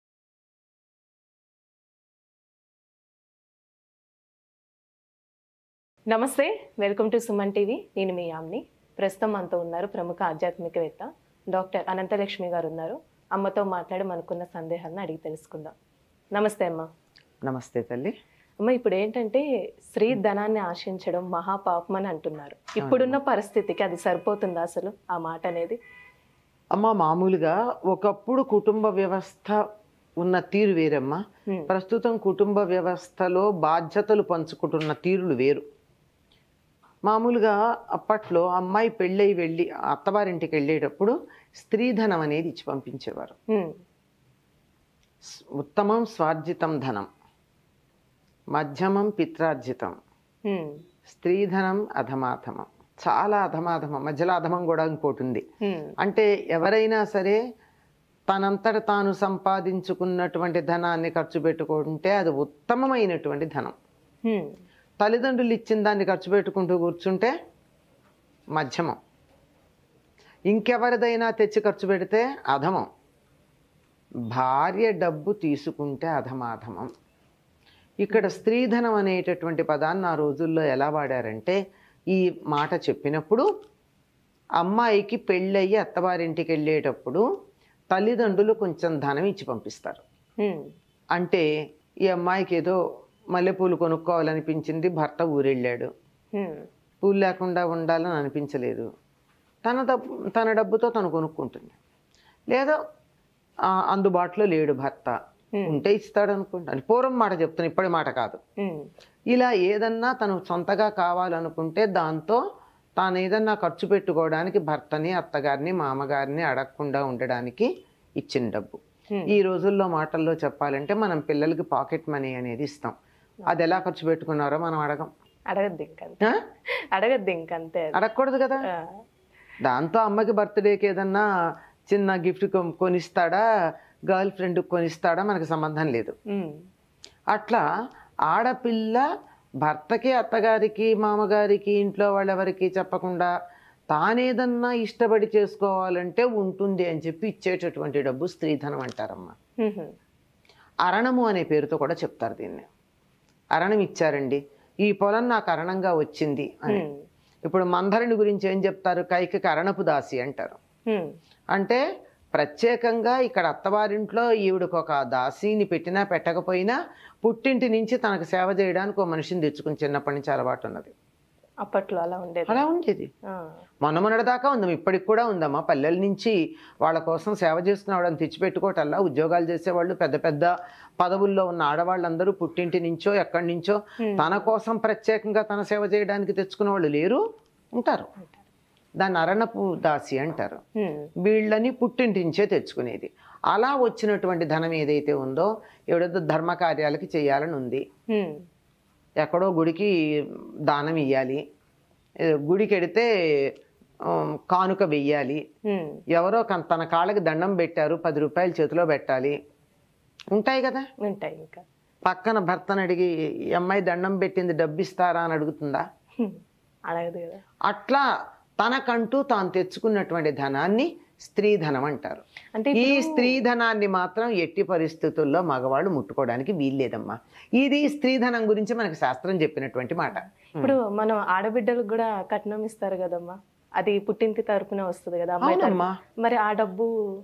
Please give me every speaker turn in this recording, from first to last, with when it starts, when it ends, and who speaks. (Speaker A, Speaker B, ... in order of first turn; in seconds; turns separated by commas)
Speaker A: 6.1-15.7, Speaker A: 16.3-16.9, Speaker B: 17.4-18.1, Speaker A: 18.6-25.8, Speaker B: 22.8-23.2, Speaker B: 26.8-29.6, Speaker B: 30.2-35.6, Speaker B: 37.1-43.4, Speaker B: 45.3-47.1, Speaker B: 48.6-50.0, Speaker A: 50.5-50.8, Speaker B: 51.1-55.4, Speaker A: 55.6-55.9, Speaker B: 56.0-57.4, Speaker B: 58.3-63.8, Speaker A: 64.3-64.5, Speaker B: 65.0-67.3, Speaker B: 68.6-69.0, Speaker B: 70.5-72.8, Speaker B: 74.3-76.9, Speaker B: 78.0-81.6, Speaker A: 78.1-78.4, Speaker B: 82.1-83.5, Speaker B: 84.6-87.2, Speaker B: 87.9-90.0, Speaker A: 90.4-90.7, Speaker B: 91.2-91.5, Speaker B: 92.1-92.8, Speaker B: 93.3-95.9, Speaker A: 96.3-96.7, Speaker B: 97.0-98.9, Speaker B: 99.7-101.8, Speaker B: 102.5-102.8, Speaker B: 103.7-108.4, Speaker A: 105.5-105.8, Speaker A: 108.6-108.8, Speaker B: 109.3-112.4, Speaker B: 113.0-117.7, Speaker B: 118.2-123.0, Speaker B: 123.5-125.1, Speaker A: 125.5-126.3, Speaker A: 126.9-128.0, Speaker B: 128.0-128.6, Speaker B: 129.6-131.3, Speaker B: 131.9-133.4, Speaker B: 134.1-136.2, Speaker A: 136.3-136.6, Speaker B: 137.3-137.6, Speaker B: 138.3-139.1, Speaker B: 139.6-143.3, Speaker B: 143.9-149.3, Speaker A: 149.6-149.9, Speaker B: 150.9-152.7, Speaker B: 153.6-156.9, Speaker A: 156.7-157.0, Speaker B: 157.5-160.6, Speaker B: 161.6-161.8, Speaker B: 162.3-170.9, Speaker A: 171.6-172.7, Speaker B: 172.5-173.1, Speaker B: 173.8-187.2, Speaker A: 184.1-184.5, Speaker B: 187.8-188.1, Speaker B: 189.0-190.6, Speaker A: 190.8-191.1, Speaker B: 191.2-197.8, Speaker A: 198.1-198.4, Speaker B: 199.2-199.9, Speaker B: 200.7-201.4, Speaker B: 202.3-203.1, Speaker B: 204.1-205.4, Speaker A: 205.7-206.0, Speaker B: 206.1-209.4, Speaker B: 210.3-210.9, Speaker A: 211.0-211.6, Speaker B: 212.1-215.8, Speaker A: 216.2-217.4, Speaker B: 217.7-218.1, Speaker B: 218.6-222.2, Speaker A: 222.6-223.4, Speaker B: 222.8-230.8, Speaker A: 230.6-236.9, Speaker B: 235.4-235.9